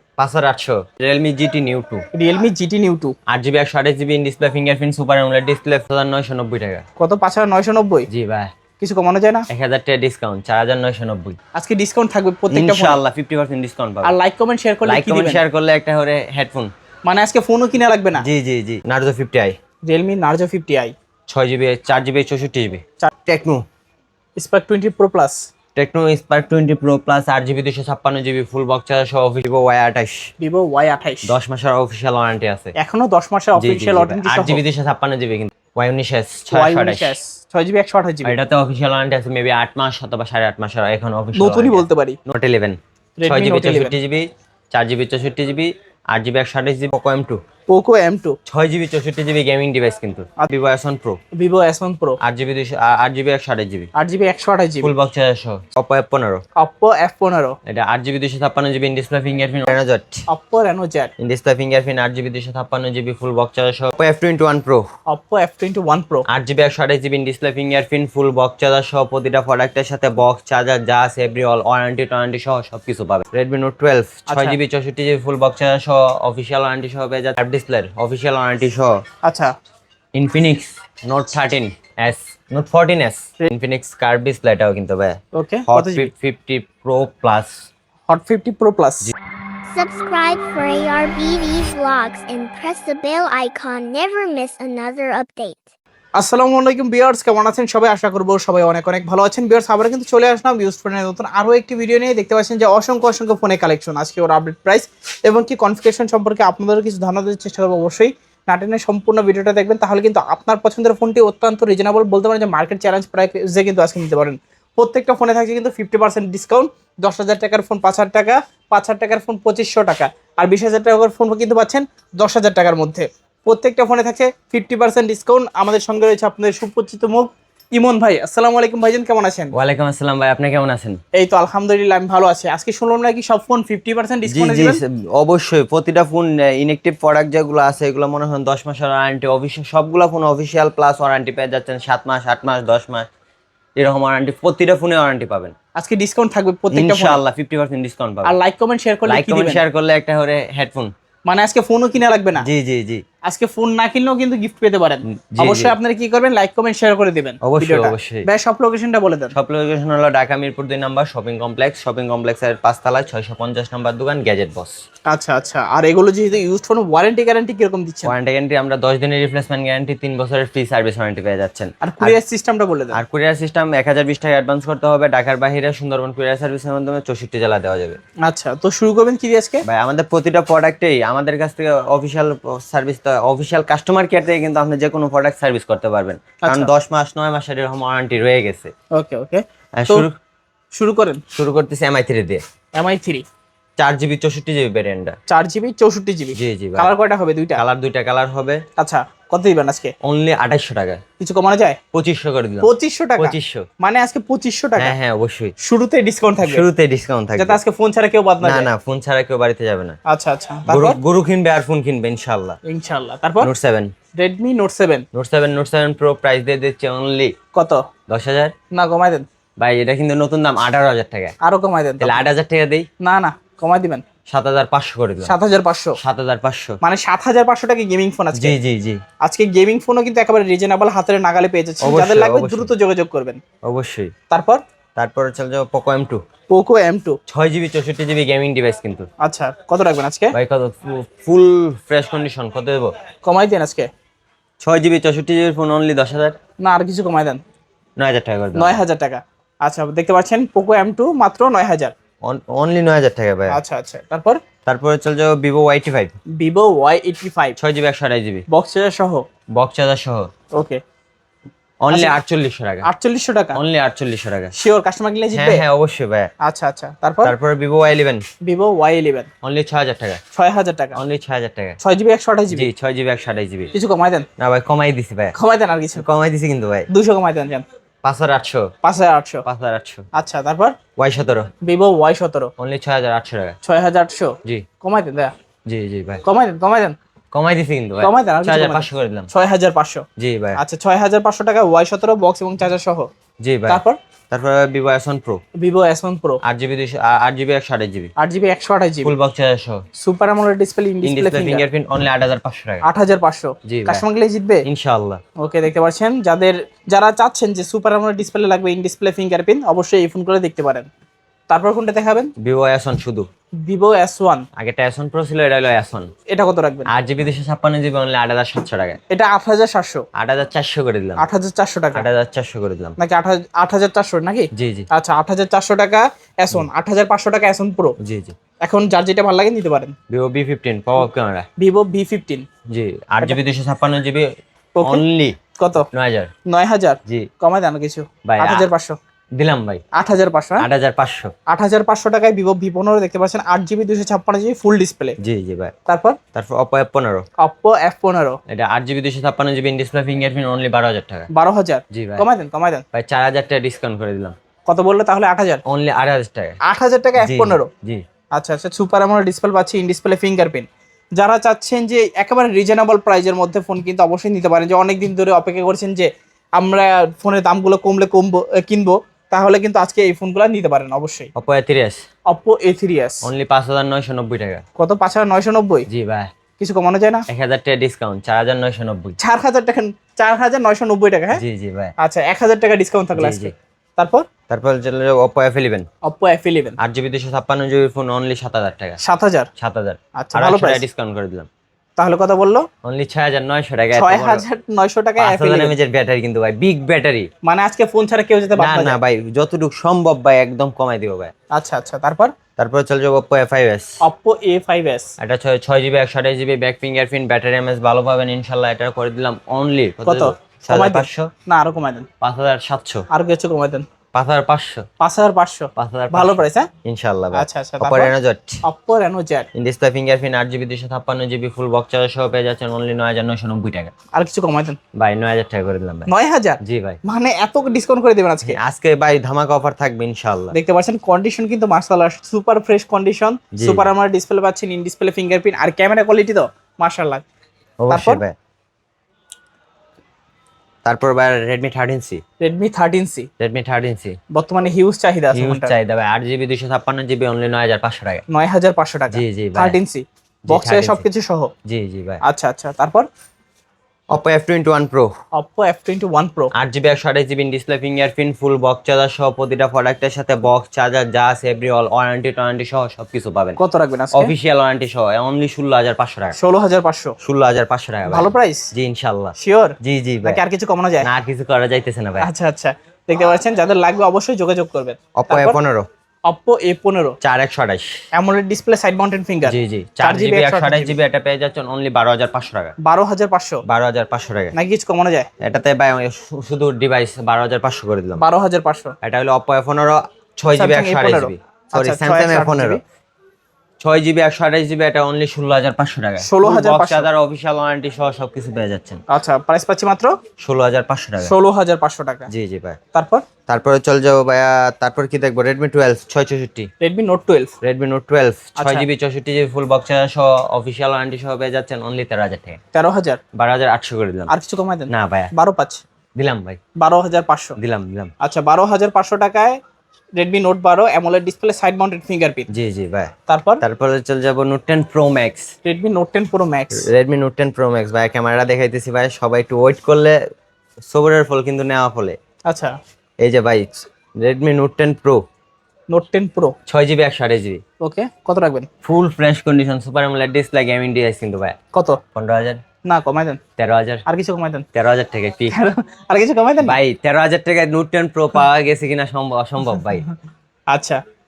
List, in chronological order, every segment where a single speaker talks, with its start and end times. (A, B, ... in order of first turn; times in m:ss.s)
0:00.2-0:02.0 A
0:02.1-0:03.1 B
0:03.3-0:06.8 A
0:07.0-0:08.1 B
0:08.1-0:08.5 A
0:08.8-0:09.5 B
0:09.5-0:11.4 A
0:11.5-0:13.0 B
0:12.5-0:14.2 A
0:14.0-0:15.4 B
0:14.8-0:16.7 A
0:17.0-0:18.2 B
0:18.2-0:19.6 A
0:19.9-0:20.9 B
0:21.3-0:23.6 A
0:24.4-0:25.4 B
0:25.7-0:30.3 A
0:30.4-0:31.3 B
0:31.3-0:32.7 A
0:32.8-0:34.6 B
0:33.6-0:37.2 A
0:36.5-0:38.4 B
0:38.2-0:47.4 A
0:41.4-0:42.2 B
0:43.2-0:44.0 B
0:47.7-0:48.4 B
0:48.4-0:51.2 A
0:51.4-0:52.2 B
0:52.2-0:53.9 A
0:53.9-0:54.9 B
0:54.8-0:56.4 A
0:56.6-0:57.5 B
0:57.6-1:00.2 A
1:00.3-1:01.1 B
1:01.2-1:04.9 A
1:05.1-1:06.2 B
1:06.3-1:19.0 A
1:14.3-1:14.6 B
1:19.2-1:19.5 B
1:20.1-1:27.5 A
1:25.3-1:26.1 B
1:28.1-1:29.1 B
1:29.7-1:35.6 C
1:36.2-2:09.5 B
2:09.5-2:11.0 A
2:11.1-2:14.8 B
2:14.3-2:23.1 A
2:23.8-2:25.5 A
2:25.7-2:27.2 B
2:26.7-2:28.4 A
2:28.2-2:29.6 B
2:29.0-2:30.9 A
2:31.2-2:32.5 B
2:32.4-2:33.0 A
2:33.2-2:39.4 B
2:35.0-2:35.8 A
2:37.4-2:38.3 A
2:39.3-2:44.7 A
2:45.1-2:48.1 B
2:48.1-2:52.2 A
2:51.8-2:53.0 B
2:52.9-2:58.0 A
2:58.2-2:59.6 B
2:59.6-3:08.7 A
3:06.4-3:06.7 B
3:08.9-3:10.1 B
3:09.8-3:10.1 A
3:10.7-3:11.2 B
3:11.3-3:12.4 A
3:12.7-3:13.2 B
3:13.8-3:15.1 A
3:15.3-3:17.6 B
3:16.4-3:16.9 A
3:17.6-3:18.6 A
3:18.8-3:19.9 B
3:20.0-3:21.0 A
3:21.2-3:21.8 B
3:21.9-3:23.7 A
3:22.6-3:24.9 B
3:24.8-3:25.6 A
3:25.6-3:26.6 B
3:26.4-3:27.6 A
3:27.4-3:28.7 B
3:28.4-3:30.0 A
3:30.1-3:31.0 B
3:30.7-3:32.6 A
3:32.6-3:33.5 B
3:33.4-3:33.9 A
3:34.2-3:35.0 B
3:35.1-3:37.3 A
3:37.5-3:37.8 B
3:38.1-3:38.5 A
3:38.7-3:39.2 B
3:39.6-3:41.3 A
3:41.4-3:42.2 B
3:42.0-3:42.9 A
3:43.0-3:44.0 B
3:44.3-3:45.3 A
3:45.2-3:46.0 B
3:46.0-3:46.8 A
3:46.8-3:48.6 B
3:48.3-3:49.0 A
3:49.2-3:53.4 B
3:51.8-3:52.7 A
3:53.6-3:54.1 A
3:54.3-3:54.6 B
3:55.0-3:56.2 A
3:56.5-3:57.2 B
3:57.3-3:59.1 A
3:59.2-4:00.3 B
4:00.3-4:02.9 A
4:03.2-4:03.9 B
4:04.6-4:06.4 A
4:06.6-4:07.4 B
4:08.0-4:08.8 A
4:08.6-4:11.9 B
4:12.2-4:13.6 A
4:13.5-4:14.4 B
4:14.6-4:16.1 A
4:16.4-4:17.6 B
4:17.6-4:18.4 A
4:18.5-4:19.2 B
4:19.5-4:20.3 A
4:20.5-4:20.8 B
4:21.8-4:22.9 A
4:21.9-4:22.2 B
4:22.8-4:23.6 B
4:23.5-4:24.5 A
4:24.6-4:25.6 B
4:25.3-4:26.3 A
4:26.4-4:27.3 B
4:27.2-4:28.2 A
4:28.4-4:29.3 B
4:29.4-4:30.2 A
4:30.3-4:31.0 B
4:31.0-4:31.8 A
4:31.8-4:32.7 B
4:32.5-4:33.7 A
4:33.7-4:34.2 B
4:34.4-4:35.3 A
4:35.3-4:36.0 B
4:36.0-4:36.9 A
4:36.9-4:37.6 B
4:38.0-4:38.7 A
4:38.8-4:39.4 B
4:39.4-4:40.0 A
4:40.1-4:40.7 B
4:41.0-4:41.5 A
4:41.6-4:42.5 B
4:42.6-4:43.6 A
4:43.6-4:45.3 B
4:45.7-4:46.2 A
4:46.2-4:46.9 B
4:47.3-4:49.3 A
4:48.0-4:50.0 B
4:50.2-4:50.6 A
4:50.6-4:53.1 B
4:53.4-4:55.4 A
4:53.7-4:54.0 B
4:55.6-4:56.4 B
4:56.4-4:58.1 A
4:58.2-4:59.1 B
4:59.0-4:59.8 A
5:00.0-5:01.6 B
5:01.0-5:02.8 A
5:02.8-5:04.6 B
5:03.6-5:04.0 A
5:04.6-5:05.2 A
5:05.4-5:10.9 B
5:11.5-5:12.3 B
5:12.4-5:13.2 A
5:13.6-5:14.4 B
5:14.6-5:16.1 A
5:16.3-5:16.9 B
5:16.9-5:19.0 A
5:19.1-5:20.0 B
5:20.1-5:21.2 A
5:21.2-5:22.1 B
5:21.9-5:23.0 A
5:23.0-5:28.0 B
5:24.5-5:24.9 A
5:28.0-5:28.3 A
5:28.6-5:29.9 B
5:30.1-5:31.4 A
5:31.6-5:32.4 B
5:32.7-5:34.3 A
5:34.8-5:35.0 B
5:34.8-5:35.4 A
5:35.6-5:35.8 B
5:35.9-5:36.3 A
5:36.5-5:39.0 B
5:38.2-5:38.7 A
5:39.4-5:39.8 A
5:39.9-5:40.7 B
5:40.6-5:41.3 A
5:41.5-5:45.2 B
5:45.2-5:45.7 A
5:45.9-5:46.2 B
5:46.3-5:47.2 A
5:47.4-5:48.4 B
5:48.5-5:51.3 A
5:51.3-5:52.8 B
5:51.9-5:52.2 A
5:52.9-5:54.3 A
5:54.7-5:55.6 B
5:55.6-5:56.6 A
5:56.6-5:57.7 B
5:57.2-5:58.0 A
5:58.4-6:11.3 B
6:11.3-6:12.0 A
6:12.3-6:13.3 B
6:13.2-6:14.6 A
6:14.8-6:15.9 B
6:15.9-6:16.3 A
6:16.6-6:17.2 B
6:17.3-6:19.2 A
6:19.2-6:21.4 B
6:21.3-6:21.9 A
6:22.0-6:24.2 B
6:23.2-6:23.5 A
6:24.5-6:25.8 A
6:26.0-6:26.8 B
6:26.8-6:29.0 A
6:29.0-6:29.5 B
6:29.6-6:31.5 A
6:30.2-6:30.8 B
6:32.0-6:32.6 B
6:32.8-6:34.4 A
6:33.9-6:35.7 B
6:35.2-6:37.3 A
6:37.4-6:39.0 B
6:38.6-6:41.3 A
6:41.5-6:42.3 B
6:42.6-6:43.9 A
6:44.0-6:45.1 B
6:45.2-6:51.3 A
6:50.0-6:52.1 B
6:52.2-6:53.1 A
6:53.1-6:53.8 B
6:54.1-6:54.8 A
6:55.0-6:56.7 B
6:55.8-6:58.6 A
6:57.3-6:58.1 B
6:58.6-6:59.5 B
6:59.5-7:03.9 A
7:04.1-7:04.8 B
7:05.0-7:06.1 A
7:06.1-7:08.6 B
7:06.6-7:07.0 A
7:08.4-7:10.6 A
7:10.5-7:17.2 B
7:13.5-7:13.9 A
7:17.8-7:18.3 A
7:17.9-7:18.2 B
7:20.8-7:22.2 A
7:22.4-7:23.3 B
7:23.4-7:24.2 A
7:24.3-7:25.7 B
7:25.3-7:28.2 A
7:28.3-7:31.5 B
7:29.1-7:29.8 A
7:30.5-7:31.0 A
7:31.6-7:32.2 A
7:32.2-7:33.0 B
7:34.1-7:35.1 A
7:35.4-7:36.5 B
7:36.5-7:43.6 A
7:43.6-7:44.3 B
7:44.1-7:46.4 A
7:46.3-7:47.1 B
7:47.2-7:50.4 A
7:48.1-7:48.7 B
7:49.4-7:51.1 B
7:51.0-7:52.3 A
7:52.2-7:55.6 B
7:55.2-7:55.8 A
7:56.3-7:57.2 B
7:57.2-7:57.9 A
7:58.1-8:01.0 B
7:59.4-8:02.7 A
8:02.8-8:03.6 B
8:03.7-8:04.5 A
8:04.5-8:05.3 B
8:05.4-8:08.2 A
8:08.2-8:08.9 B
8:09.0-8:12.8 A
8:10.5-8:12.8 B
8:13.8-8:19.0 A
8:16.2-8:17.1 B
8:19.1-8:20.1 B
8:20.4-8:21.3 A
8:21.2-8:22.3 B
8:22.3-8:22.8 A
8:22.9-8:23.2 B
8:23.5-8:26.7 A
8:26.8-8:27.5 B
8:27.6-8:32.6 A
8:28.6-8:28.8 B
8:32.7-8:33.2 B
8:33.3-8:34.3 A
8:34.3-8:35.8 B
8:34.9-8:35.3 A
8:36.2-8:36.6 A
8:36.8-8:37.6 B
8:37.6-8:38.1 A
8:38.2-8:39.6 B
8:40.2-8:42.5 B
8:42.5-8:45.5 A
8:43.3-8:43.6 B
8:45.6-8:46.9 B
8:46.8-8:50.2 A
8:50.9-8:52.2 A
8:52.5-8:52.8 B
8:53.2-8:53.7 A
8:54.2-8:55.2 A
8:55.9-8:56.5 B
8:56.7-8:57.6 A
8:57.8-8:58.7 B
8:58.8-9:01.6 A
9:01.7-9:02.0 B
9:02.1-9:02.6 A
9:02.9-9:03.4 B
9:03.6-9:04.0 A
9:04.0-9:04.7 B
9:04.7-9:05.6 A
9:05.5-9:06.8 B
9:06.6-9:10.1 A
9:10.7-9:11.0 B